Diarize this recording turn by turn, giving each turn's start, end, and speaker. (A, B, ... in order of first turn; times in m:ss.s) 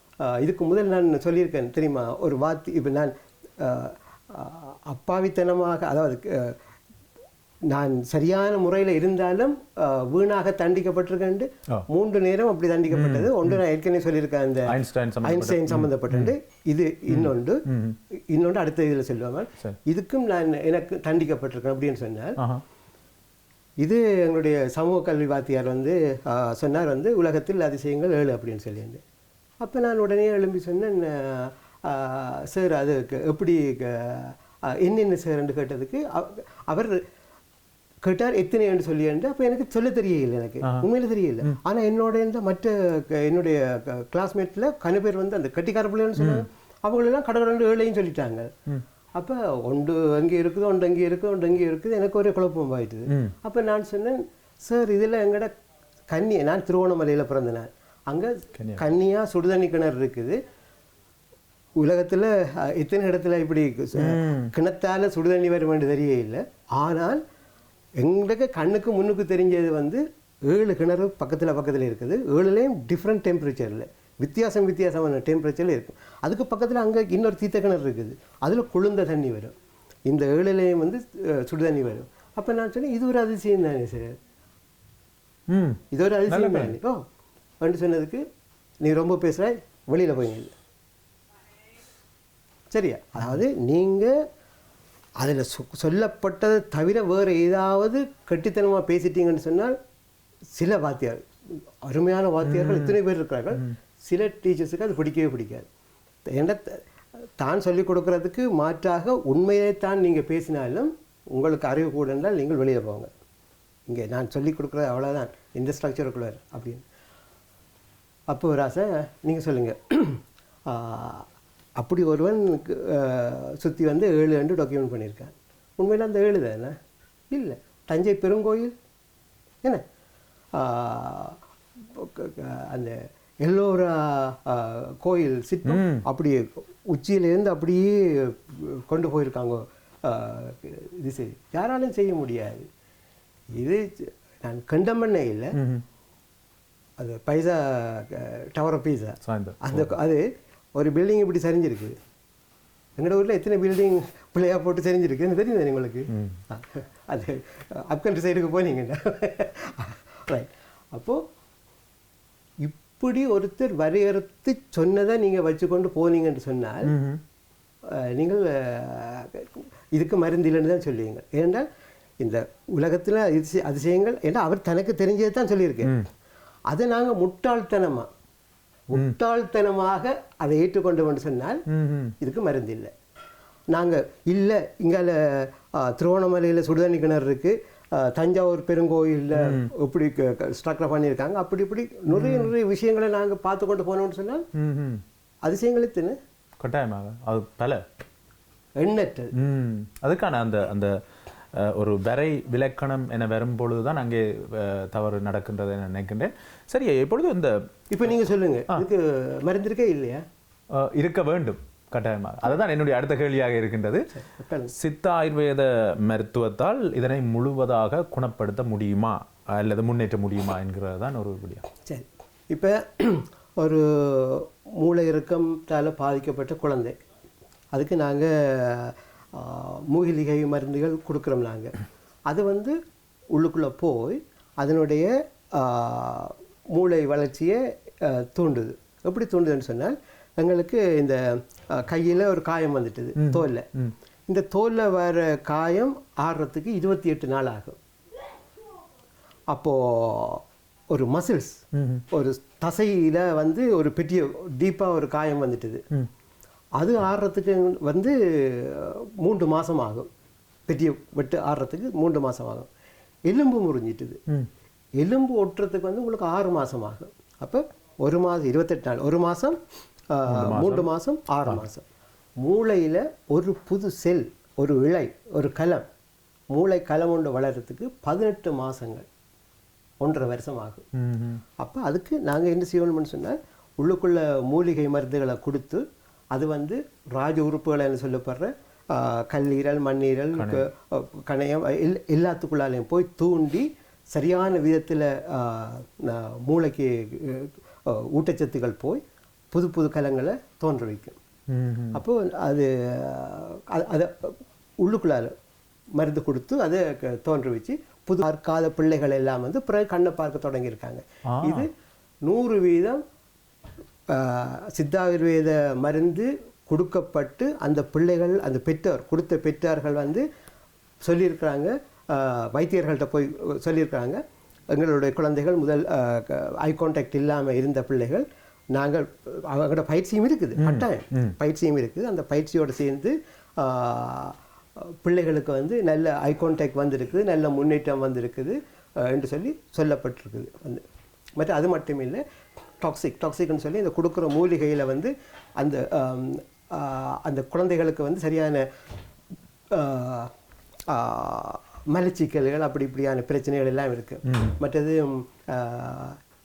0:00.2-0:06.6 A
0:07.7-0:22.4 A
0:12.9-0:13.6 B
0:14.7-0:16.3 B
0:17.1-0:18.0 B
0:22.4-0:22.6 B
0:23.8-0:29.0 A
0:29.6-0:37.0 A
0:38.0-0:48.5 A
0:40.6-0:40.9 B
0:46.2-0:46.4 B
0:49.2-0:55.5 A
0:53.1-0:53.3 B
0:56.1-1:00.4 A
0:58.6-0:58.9 B
1:01.8-1:07.2 A
1:04.0-1:04.5 B
1:08.0-1:19.5 A
1:20.1-1:24.2 A
1:25.5-1:26.8 B
1:25.9-1:27.0 A
1:27.6-1:28.2 A
1:28.8-1:30.5 A
1:32.7-1:34.1 A
1:35.2-1:39.8 A
1:40.5-1:45.7 A
1:42.4-1:43.0 B
1:46.3-1:46.9 A
1:47.4-1:53.1 A
1:53.9-1:56.8 A
1:58.3-2:01.3 A
2:01.8-2:06.8 A
2:07.3-2:08.7 A
2:10.5-2:11.4 A
2:11.9-2:22.7 A
2:15.6-2:16.0 B
2:23.5-2:25.6 A
2:25.5-2:25.8 B
2:27.0-2:32.0 A
2:29.2-2:29.9 B
2:33.0-2:41.2 A
2:36.1-2:36.4 B
2:42.6-2:46.9 A
2:46.8-2:47.2 B
2:47.9-2:51.7 A
2:52.2-2:56.0 A
2:56.7-2:58.1 A
2:58.9-3:01.6 A
3:01.7-3:02.1 B
3:02.2-3:02.9 A
3:03.7-3:14.5 A
3:09.3-3:09.7 B
3:12.1-3:12.5 B
3:14.5-3:15.0 B
3:15.4-3:16.2 A
3:16.6-3:17.8 B
3:18.8-3:19.3 A
3:19.3-3:20.9 B
3:21.5-3:27.6 B
3:27.9-3:30.2 A
3:30.7-3:34.1 B
3:34.1-3:34.7 A
3:34.7-3:41.6 B
3:41.8-3:46.9 A
3:47.7-3:51.7 A
3:52.3-3:52.8 A
3:53.3-4:03.7 A
4:03.2-4:03.9 B
4:04.3-4:07.8 A
4:09.5-4:15.8 A
4:11.7-4:12.0 B
4:16.8-4:20.1 A
4:20.7-4:22.7 A
4:23.3-4:24.2 A
4:25.0-4:29.6 A
4:30.1-4:31.8 A
4:30.3-4:30.9 B
4:32.4-4:35.8 A
4:36.5-4:39.0 A
4:40.0-4:40.8 A
4:40.9-4:41.4 B
4:41.6-5:01.2 A
4:50.4-4:50.6 B
5:01.5-5:02.0 B
5:01.9-5:05.3 A
5:06.0-5:11.7 A
5:11.3-5:11.7 B
5:12.2-5:13.0 A
5:14.1-5:20.2 A
5:21.0-5:24.2 A
5:24.7-5:40.8 A
5:30.6-5:31.4 B
5:41.4-5:42.2 A
5:42.8-5:48.6 A
5:49.7-5:50.3 A
5:50.9-5:56.2 A
5:54.3-5:54.6 B